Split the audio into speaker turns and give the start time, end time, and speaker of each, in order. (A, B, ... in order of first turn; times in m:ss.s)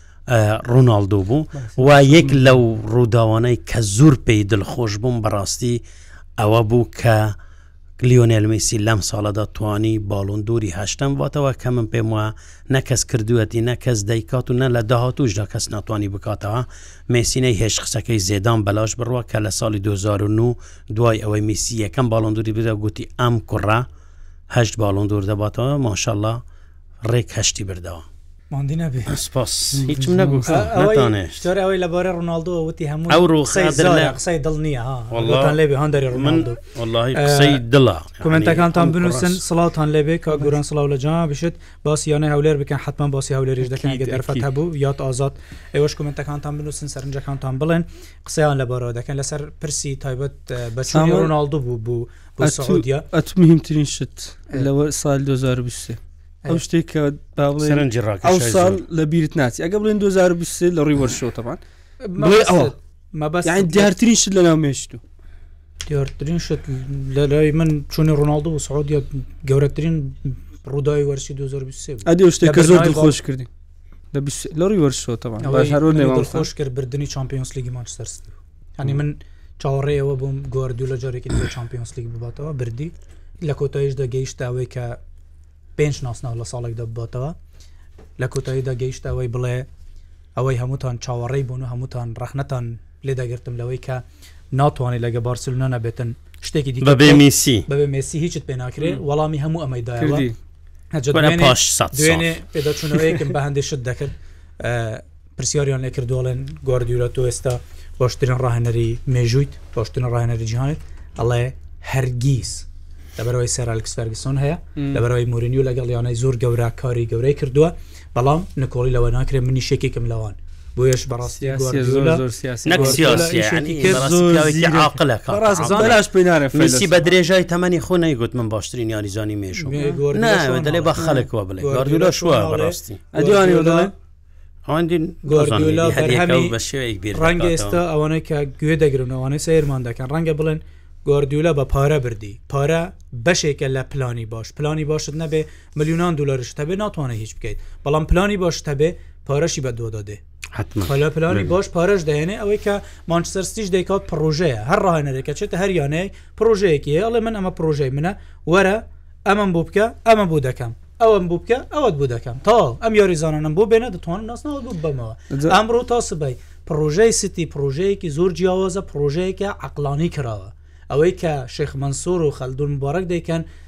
0:00.3-0:05.8 A
0:01.6-0:02.6 B
0:06.4-0:07.4 A
0:08.0-0:23.9 A
0:24.5-0:26.4 A
0:27.0-0:28.0 A
0:28.5-0:29.2 C
0:29.1-0:31.4 A
0:29.9-0:30.6 B
0:30.5-0:36.6 C
0:33.1-0:34.2 A
0:35.1-0:35.6 A
0:36.1-0:39.4 A
0:37.1-0:37.6 C
0:38.2-0:53.1 C
0:43.6-0:44.5 B
0:50.9-0:51.3 B
0:52.4-1:01.6 B
0:57.6-0:58.8 A
1:02.0-1:03.9 C
1:02.2-1:02.7 B
1:03.4-1:05.0 B
1:05.9-1:13.2 C
1:12.1-1:13.5 B
1:14.1-1:16.5 B
1:15.4-1:25.0 C
1:25.8-1:27.4 C
1:28.2-1:29.7 C
1:30.4-1:40.3 C
1:36.8-1:37.7 A
1:40.0-1:40.3 B
1:40.9-1:52.7 C
1:41.1-1:42.4 A
1:53.2-2:04.1 C
1:54.8-1:55.0 B
2:01.4-2:06.9 B
2:02.7-2:06.0 A
2:05.5-2:06.0 C
2:06.5-2:13.0 A
2:09.6-2:13.9 C
2:13.1-2:13.9 B
2:14.6-2:17.8 A
2:15.2-2:16.6 C
2:17.1-2:30.2 C
2:30.5-2:31.5 A
2:30.8-2:53.4 C
2:45.3-2:45.6 B